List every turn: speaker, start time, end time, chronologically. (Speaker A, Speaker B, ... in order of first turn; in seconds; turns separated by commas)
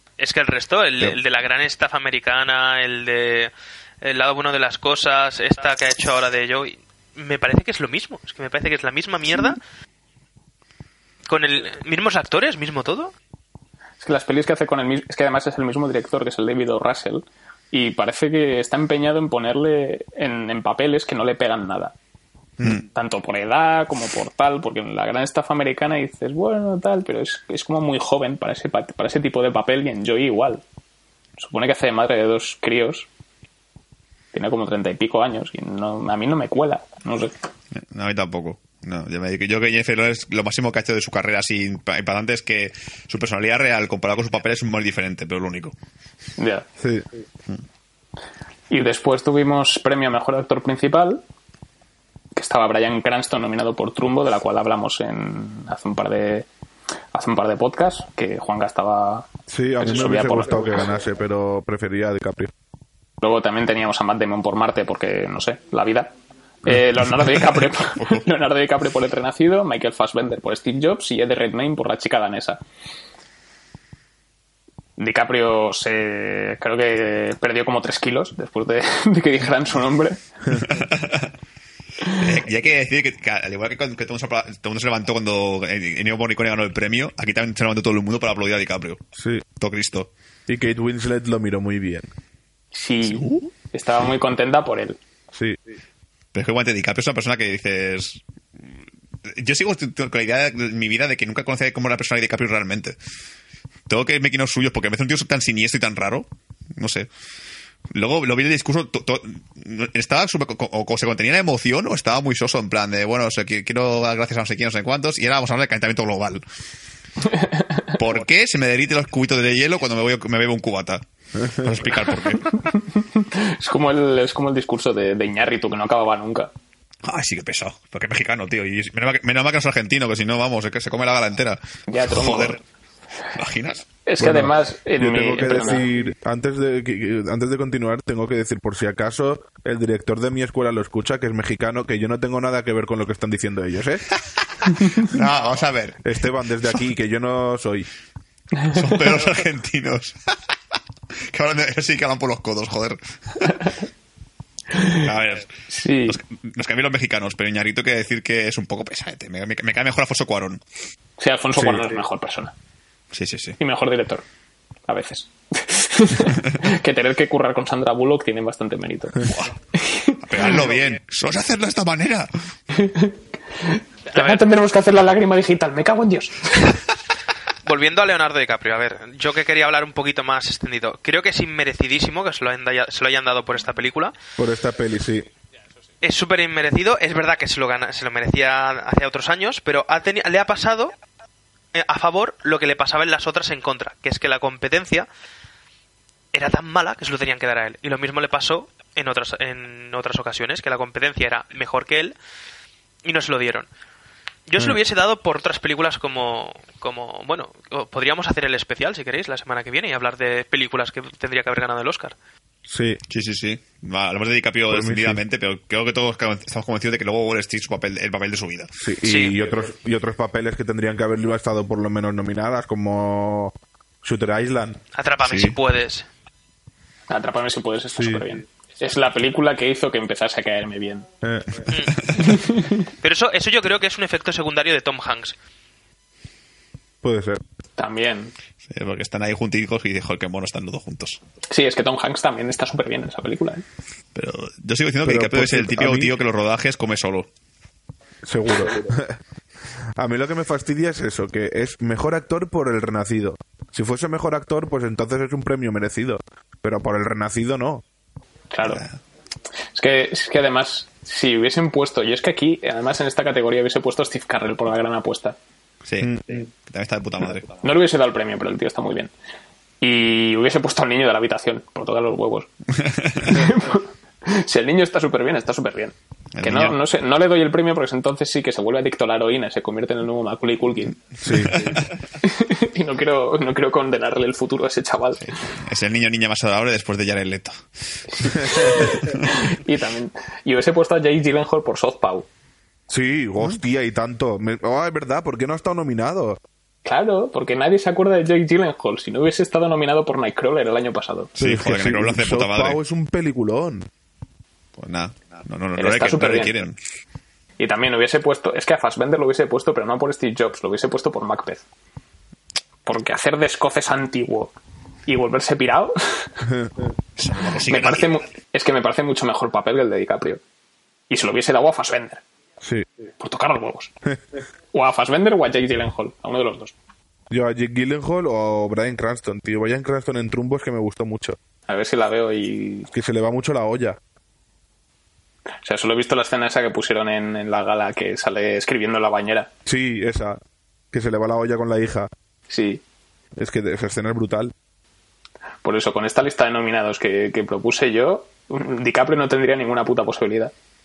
Speaker A: 0.2-9.6, Speaker A: 11.3-13.1, Speaker B: 14.0-21.9, Speaker B: 22.6-30.6, Speaker B: 31.4-33.1, Speaker B: 34.3-37.3, Speaker C: 37.7-45.7, Speaker B: 46.4-46.6, Speaker D: 46.8-47.0, Speaker B: 48.7-51.2, Speaker B: 52.4-56.5, Speaker B: 57.1-59.3, Speaker D: 59.5-62.5, Speaker B: 59.8-60.8, Speaker B: 63.2-66.1, Speaker B: 66.6-72.6, Speaker C: 68.0-68.2, Speaker B: 75.0-80.2, Speaker C: 80.6-81.3, Speaker C: 82.1-89.0, Speaker D: 89.2-89.4, Speaker C: 89.6-90.1, Speaker D: 90.5-92.1, Speaker B: 92.7-95.0, Speaker C: 93.0-93.5, Speaker D: 95.3-95.6, Speaker C: 96.3-98.7, Speaker C: 99.2-103.0, Speaker C: 103.9-107.1, Speaker C: 107.9-116.4, Speaker C: 117.9-122.7, Speaker B: 122.7-126.5, Speaker C: 127.0-132.6, Speaker B: 131.9-132.6, Speaker C: 133.3-133.9, Speaker B: 134.1-135.8, Speaker D: 134.2-144.1, Speaker C: 144.6-146.0, Speaker D: 146.0-147.9, Speaker C: 148.7-150.2, Speaker C: 151.3-153.7, Speaker B: 154.7-155.0, Speaker C: 154.8-155.5, Speaker B: 155.7-156.2, Speaker C: 156.0-160.6, Speaker B: 161.2-162.5, Speaker D: 161.6-161.8, Speaker C: 163.1-163.6, Speaker B: 163.6-164.2, Speaker B: 164.9-170.6, Speaker C: 169.2-169.5, Speaker C: 170.2-172.3, Speaker B: 172.7-176.8, Speaker A: 174.1-174.4, Speaker A: 177.6-184.1, Speaker D: 184.4-185.3, Speaker A: 186.0-190.9, Speaker A: 191.7-195.1, Speaker A: 196.3-202.1, Speaker A: 203.0-203.7, Speaker A: 204.5-212.1, Speaker D: 212.7-213.0, Speaker C: 213.1-218.7, Speaker D: 214.7-215.2, Speaker D: 218.8-224.8, Speaker A: 219.0-219.4, Speaker A: 224.9-226.1, Speaker C: 225.2-225.6, Speaker B: 227.1-231.1, Speaker D: 227.9-228.2, Speaker D: 231.2-231.7, Speaker A: 231.7-232.1, Speaker B: 232.2-232.8, Speaker A: 232.8-235.3, Speaker D: 237.0-237.4, Speaker B: 237.8-238.3, Speaker C: 238.7-241.2, Speaker B: 241.5-243.6, Speaker C: 244.1-247.3, Speaker D: 245.0-246.2, Speaker D: 248.2-249.2, Speaker D: 250.0-257.8, Speaker B: 258.5-258.8, Speaker C: 258.6-259.0, Speaker B: 259.7-265.4, Speaker C: 265.8-267.5, Speaker B: 267.6-269.1, Speaker B: 269.8-272.5, Speaker C: 272.8-273.4, Speaker B: 273.2-281.0, Speaker C: 276.4-276.8, Speaker D: 281.2-281.8, Speaker C: 281.2-281.9, Speaker B: 282.2-285.3, Speaker C: 285.2-287.6, Speaker B: 288.1-292.3, Speaker C: 288.2-289.3, Speaker D: 292.9-296.4, Speaker B: 296.8-301.3, Speaker C: 301.4-302.8, Speaker D: 301.4-303.9, Speaker C: 304.8-306.8, Speaker B: 305.8-306.6, Speaker B: 307.6-311.6, Speaker B: 312.9-314.5, Speaker B: 315.1-316.4, Speaker D: 316.4-316.7, Speaker C: 317.2-318.2, Speaker B: 317.7-320.4, Speaker B: 321.1-322.2, Speaker D: 322.6-322.9, Speaker B: 323.2-323.9, Speaker B: 324.7-326.7, Speaker D: 327.3-331.4, Speaker B: 331.7-332.9, Speaker D: 332.9-334.0, Speaker B: 335.6-339.5, Speaker D: 339.6-340.4, Speaker D: 340.9-342.1, Speaker B: 342.5-342.8, Speaker D: 343.4-344.5, Speaker B: 345.6-350.5